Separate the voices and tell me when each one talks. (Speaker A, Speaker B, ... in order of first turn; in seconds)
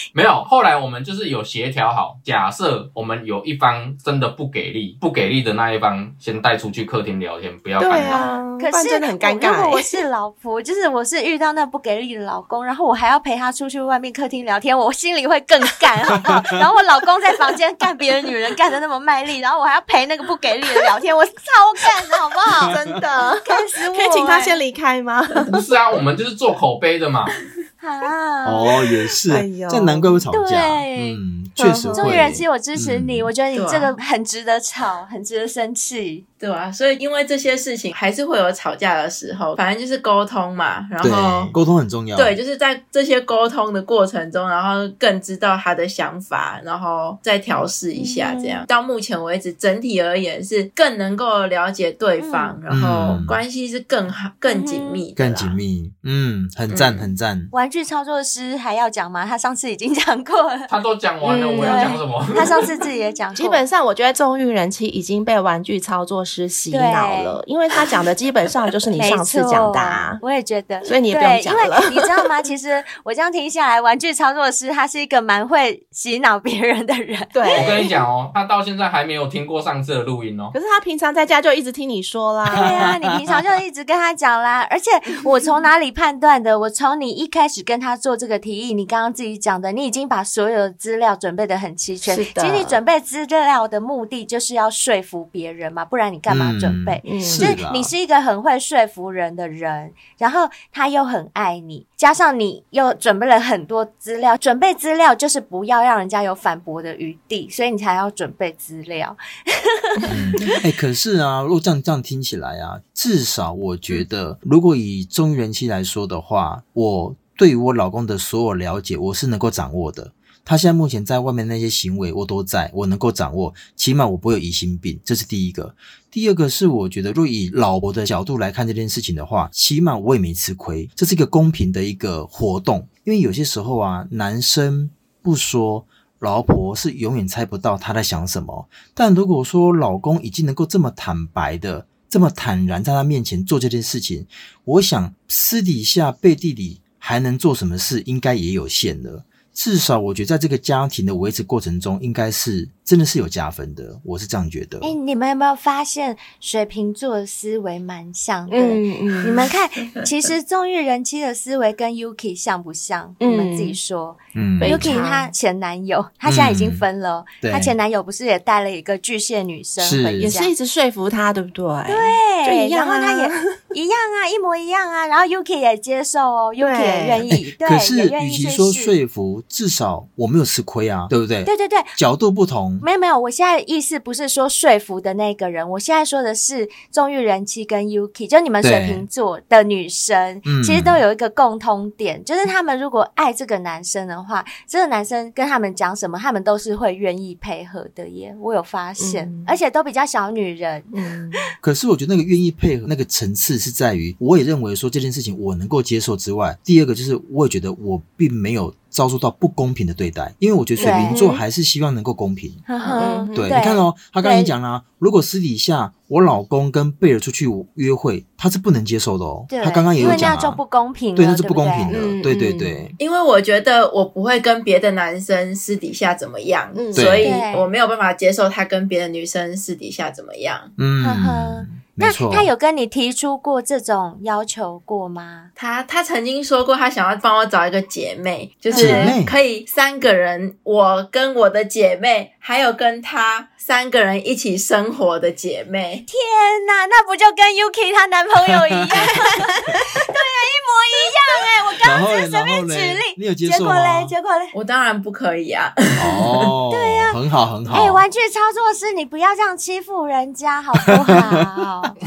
Speaker A: 0.1-8.3, 25.5-27.3, 60.7-62.6, 77.5-80.5
Speaker B: 7.8-10.0, 22.0-25.6, 29.3-30.2, 31.6-32.3, 48.1-48.6, 54.5-55.0, 61.2-62.7, 63.4-70.2, 70.8-72.3, 77.3-78.0, 80.5-82.9, 92.0-92.8, 97.0-97.5, 158.5-159.5, 163.2-163.8, 164.6-165.3, 170.2-173.6, 176.6-177.3, 199.0-199.6, 200.9-201.4, 210.8-211.4, 212.9-213.6, 220.0-220.3, 221.9-222.9, 226.7-227.2
Speaker C: 8.6-22.7, 23.4-24.6, 27.8-28.7, 30.3-31.2, 31.9-36.2, 48.0-48.6, 52.2-52.5, 57.5-60.7, 61.6-63.6, 66.7-67.4, 69.0-77.8, 82.5-110.5, 154.8-170.5, 171.9-179.0, 181.4-181.9, 182.8-200.9, 210.8-211.3, 212.7-214.5, 219.5-222.1, 227.2-227.7, 231.0-235.5, 238.7-239.2, 246.1-254.5, 256.7-257.2, 257.7-261.9
Speaker D: 28.4-33.3, 41.0-42.4, 52.7-53.4, 55.1-57.5, 82.6-82.9, 96.3-97.9, 110.1-154.9, 164.3-165.0, 166.2-166.8, 167.4-167.7, 169.8-170.3, 177.4-182.8, 188.6-189.1, 190.4-191.0, 201.6-212.6, 213.3-220.6, 221.1-222.9, 226.9-227.4, 230.8-232.5, 238.7-239.3, 251.8-254.1, 256.0-258.0
Speaker E: 33.5-33.9, 36.4-41.5, 42.1-55.6, 56.7-57.1, 223.0-230.7, 235.6-246.1, 254.5-256.3